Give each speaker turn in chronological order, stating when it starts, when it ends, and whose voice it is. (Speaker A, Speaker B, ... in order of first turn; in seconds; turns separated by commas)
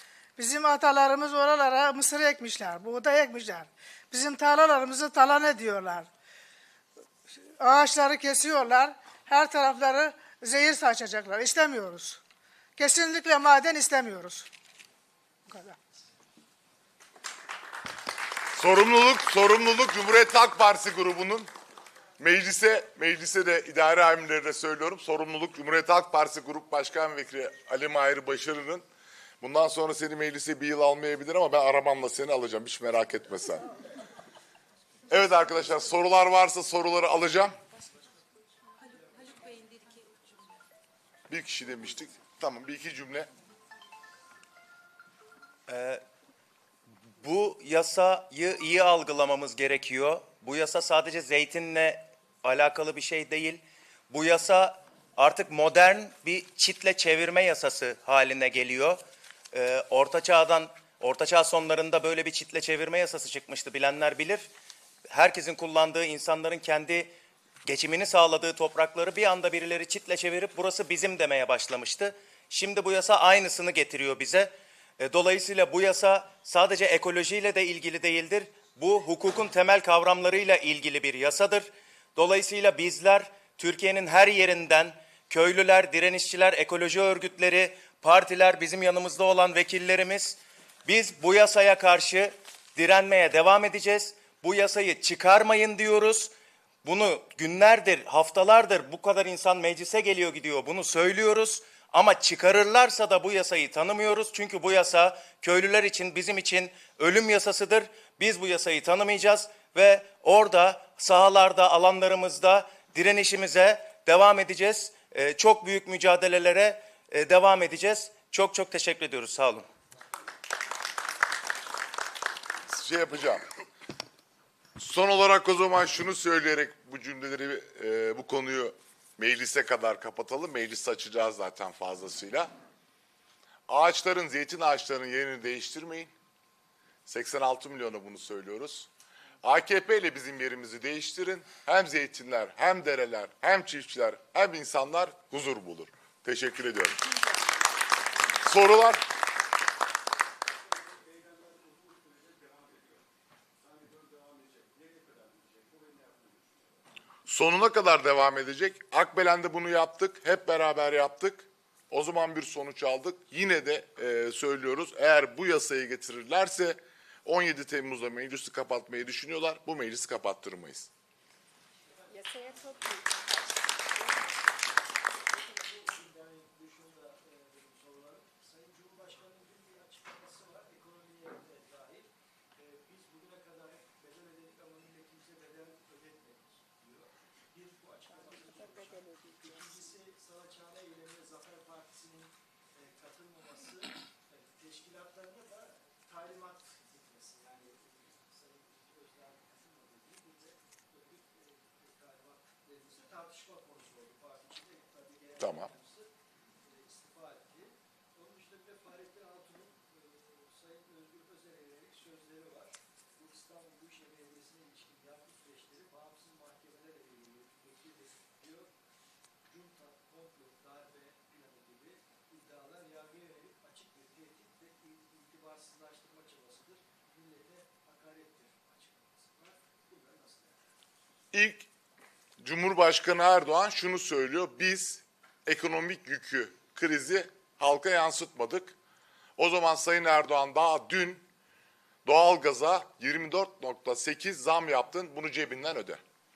Speaker A: 0.4-6.1, Speaker A: 7.6-12.2, Speaker A: 12.8-14.5, Speaker A: 15.5-15.8, Speaker B: 18.5-21.5, Speaker B: 22.2-28.8, Speaker B: 29.4-33.7, Speaker B: 35.1-37.5, Speaker C: 38.8-40.2, Speaker B: 41.3-43.3, Speaker D: 45.7-46.0, Speaker D: 47.2-59.0, Speaker D: 59.5-64.5, Speaker D: 65.1-67.1, Speaker D: 67.7-96.3, Speaker D: 96.8-119.7, Speaker B: 122.7-123.4, Speaker B: 124.8-132.5, Speaker B: 133.7-136.1, Speaker B: 137.1-138.9, Speaker B: 139.4-147.1, Speaker B: 148.4-149.0, Speaker C: 151.1-152.8, Speaker E: 153.9-156.2, Speaker B: 157.2-170.9, Speaker C: 171.9-172.9, Speaker E: 172.9-173.6, Speaker C: 175.2-218.7, Speaker B: 205.4-205.7, Speaker C: 219.4-230.6, Speaker B: 231.3-231.7, Speaker B: 232.4-238.8, Speaker B: 239.4-241.2, Speaker B: 242.0-246.0